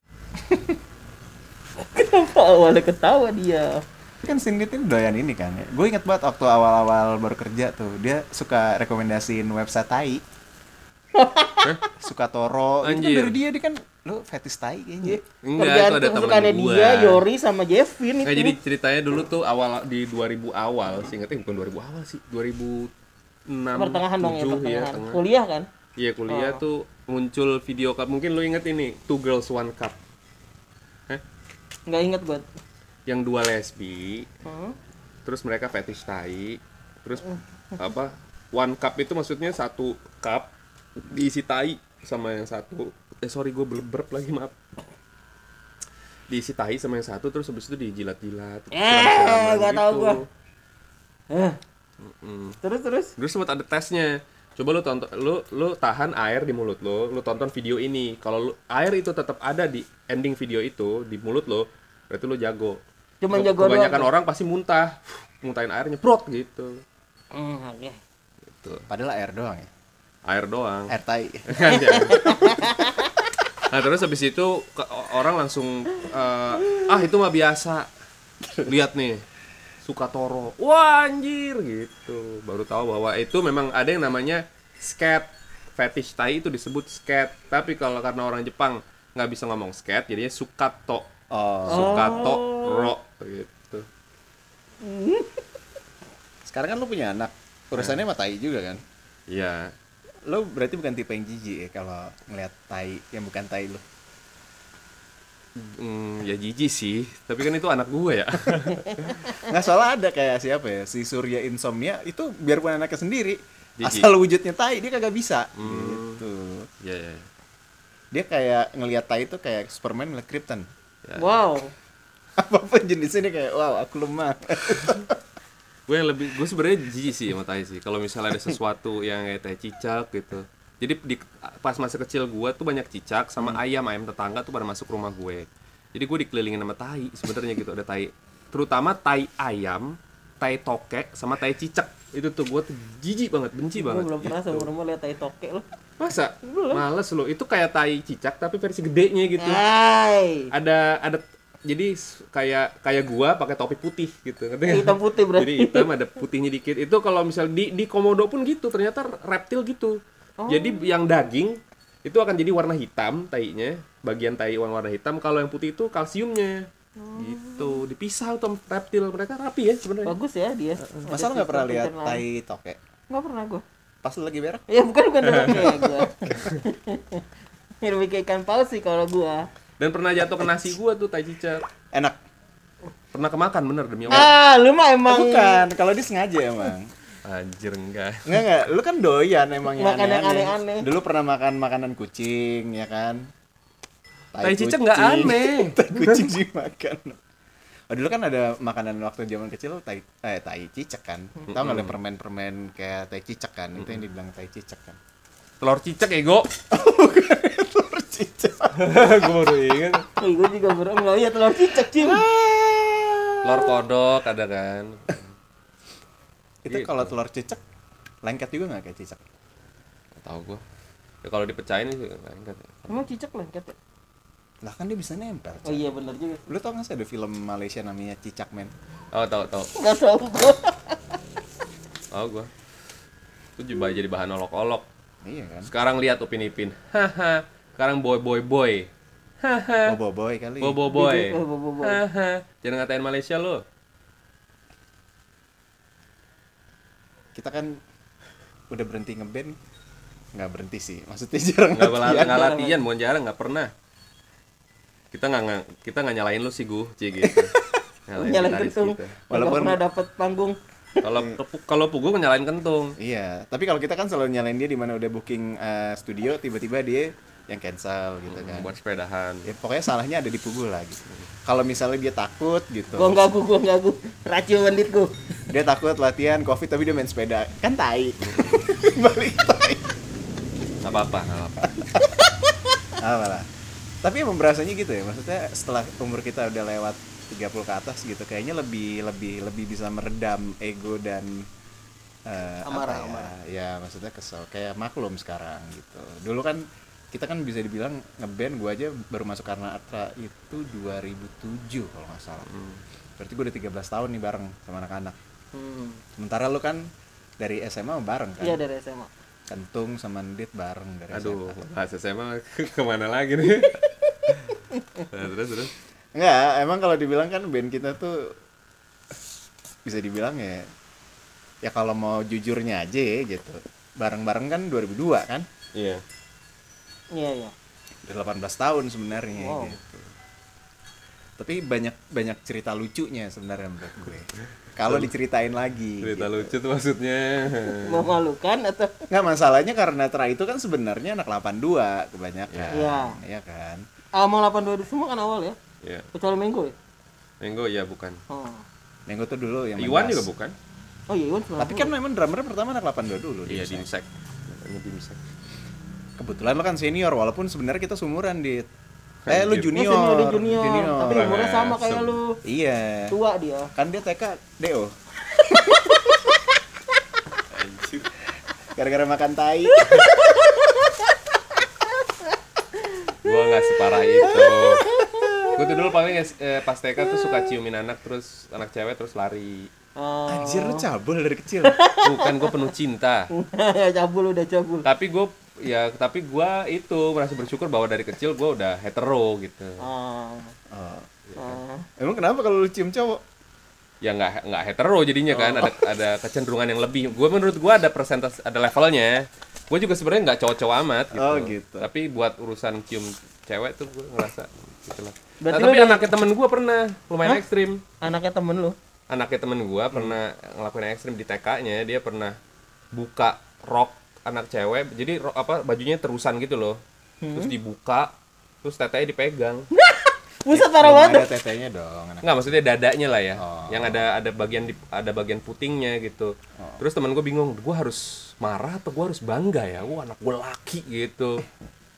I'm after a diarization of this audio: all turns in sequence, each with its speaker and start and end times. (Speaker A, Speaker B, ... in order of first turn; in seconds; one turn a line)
Speaker A: 1.9-3.8
Speaker B: 4.2-10.2
Speaker A: 11.1-11.7
Speaker B: 12.0-15.2
Speaker C: 12.8-13.4
Speaker A: 15.0-18.6
Speaker C: 15.4-17.2
Speaker C: 18.2-22.9
Speaker C: 23.5-25.2
Speaker A: 23.7-25.7
Speaker C: 26.0-30.0
Speaker A: 26.3-26.6
Speaker A: 31.9-32.5
Speaker C: 33.1-34.3
Speaker A: 34.4-34.8
Speaker C: 35.2-37.2
Speaker C: 37.8-40.5
Speaker C: 41.1-44.5
Speaker C: 46.3-50.2
Speaker A: 48.7-50.2
Speaker A: 51.3-51.6
Speaker C: 52.0-52.6
Speaker A: 52.6-53.1
Speaker C: 53.2-66.8
Speaker A: 63.2-64.1
Speaker A: 67.3-68.0
Speaker C: 68.5-68.8
Speaker B: 68.9-69.7
Speaker C: 70.2-70.9
Speaker B: 70.9-72.4
Speaker C: 71.5-72.5
Speaker A: 71.7-73.1
Speaker C: 73.7-77.9
Speaker C: 78.6-79.2
Speaker C: 79.8-91.1
Speaker B: 91.3-92.3
Speaker A: 91.7-92.9
Speaker C: 91.7-93.9
Speaker A: 94.8-95.4
Speaker B: 96.5-98.8
Speaker C: 99.3-99.7
Speaker B: 100.2-103.8
Speaker C: 105.6-109.3
Speaker B: 109.4-116.7
Speaker C: 113.8-114.1
Speaker C: 115.6-116.2
Speaker C: 116.8-117.2
Speaker B: 118.1-120.7
Speaker C: 121.0-121.4
Speaker A: 121.2-121.7
Speaker B: 122.4-125.2
Speaker C: 125.9-144.7
Speaker A: 143.8-145.7
Speaker C: 146.0-149.6
Speaker A: 146.4-146.8
Speaker A: 149.4-150.5
Speaker C: 150.5-170.2
Speaker A: 154.6-155.9
Speaker A: 160.4-161.0
Speaker A: 167.0-167.8
Speaker A: 170.0-172.2
Speaker C: 170.8-171.1
Speaker B: 171.1-172.8
Speaker A: 173.1-173.6
Speaker B: 174.0-174.6
Speaker A: 174.7-177.2
Speaker C: 175.2-175.7
Speaker A: 177.8-179.5
Speaker C: 179.8-181.6
Speaker B: 181.9-182.2
Speaker C: 183.1-184.3
Speaker A: 184.1-185.6
Speaker B: 185.1-186.9
Speaker C: 187.2-188.4
Speaker B: 188.2-193.3
Speaker A: 189.8-190.9
Speaker B: 194.3-197.2
Speaker C: 194.4-196.3
Speaker B: 197.9-205.0
Speaker C: 201.5-201.9
Speaker C: 203.8-204.0
Speaker C: 205.6-206.5
Speaker B: 206.7-209.6
Speaker C: 208.7-210.0
Speaker A: 210.2-212.2
Speaker B: 211.6-213.8
Speaker C: 213.4-215.2
Speaker B: 216.6-217.6
Speaker C: 216.7-217.1
Speaker B: 218.2-219.2
Speaker C: 220.2-220.6
Speaker C: 221.2-223.1
Speaker A: 222.9-223.8
Speaker B: 224.6-225.9
Speaker A: 225.6-226.4
Speaker B: 226.5-228.7
Speaker C: 229.1-229.7
Speaker A: 229.8-231.0
Speaker C: 232.1-232.5
Speaker C: 233.6-234.8
Speaker B: 235.2-235.7
Speaker C: 235.7-238.9
Speaker C: 239.4-240.0
Speaker B: 239.8-240.8
Speaker C: 240.6-243.6
Speaker A: 240.9-242.0
Speaker B: 247.3-247.8
Speaker B: 248.7-249.6
Speaker B: 250.3-252.4
Speaker C: 251.7-253.7
Speaker A: 252.2-252.8
Speaker C: 255.1-257.5
Speaker B: 257.2-257.5
Speaker C: 258.1-259.2
Speaker A: 258.1-260.6
Speaker B: 259.3-259.8
Speaker C: 261.0-263.0
Speaker B: 263.0-268.7
Speaker C: 268.3-269.5
Speaker B: 269.4-273.2
Speaker A: 272.9-275.1
Speaker B: 275.5-279.9
Speaker C: 278.2-278.7
Speaker C: 280.8-281.7
Speaker B: 281.8-282.3
Speaker B: 282.9-283.4
Speaker B: 284.0-291.5
Speaker B: 292.3-302.5
Speaker A: 292.6-293.3
Speaker C: 302.4-302.8
Speaker B: 303.2-305.1
Speaker A: 305.5-306.0
Speaker B: 306.2-306.9
Speaker B: 307.4-308.6
Speaker A: 308.4-309.1
Speaker B: 309.5-311.6
Speaker C: 311.1-315.7
Speaker B: 316.1-318.3
Speaker B: 319.8-320.7
Speaker B: 321.6-325.4
Speaker C: 325.7-326.0
Speaker A: 327.1-327.5
Speaker B: 328.0-329.8
Speaker A: 329.3-329.8
Speaker B: 331.4-336.5
Speaker C: 334.8-335.1
Speaker C: 336.0-338.1
Speaker A: 337.6-339.0
Speaker B: 339.1-343.8
Speaker C: 342.5-342.8
Speaker A: 342.7-343.2
Speaker A: 344.1-345.6
Speaker C: 345.8-346.1
Speaker A: 346.1-346.7
Speaker C: 347.4-348.2
Speaker A: 348.3-348.6
Speaker B: 349.1-350.3
Speaker C: 349.8-350.6
Speaker A: 351.1-351.9
Speaker B: 351.6-353.9
Speaker C: 353.5-355.2
Speaker B: 356.2-358.6
Speaker C: 359.2-359.8
Speaker B: 359.3-361.4
Speaker A: 359.7-362.4
Speaker C: 361.0-362.2
Speaker B: 362.4-363.2
Speaker A: 363.1-363.7
Speaker B: 363.7-364.9
Speaker C: 367.5-368.1
Speaker B: 368.7-370.9
Speaker C: 373.2-374.8
Speaker B: 374.2-375.7
Speaker A: 374.8-375.6
Speaker C: 375.5-379.7
Speaker A: 377.1-377.4
Speaker A: 379.9-380.9
Speaker B: 380.3-381.7
Speaker A: 381.6-382.7
Speaker C: 382.0-383.3
Speaker A: 383.3-384.9
Speaker C: 384.8-389.9
Speaker A: 389.8-390.5
Speaker B: 390.7-391.4
Speaker A: 391.4-391.9
Speaker B: 392.0-393.2
Speaker C: 394.0-407.8
Speaker B: 395.3-395.8
Speaker B: 401.1-401.9
Speaker A: 405.4-406.2
Speaker A: 408.0-408.8
Speaker C: 409.1-412.4
Speaker C: 412.9-416.8
Speaker A: 417.2-417.5
Speaker C: 417.3-419.7
Speaker A: 419.7-421.3
Speaker B: 420.5-422.6
Speaker C: 422.2-431.4
Speaker B: 423.3-424.1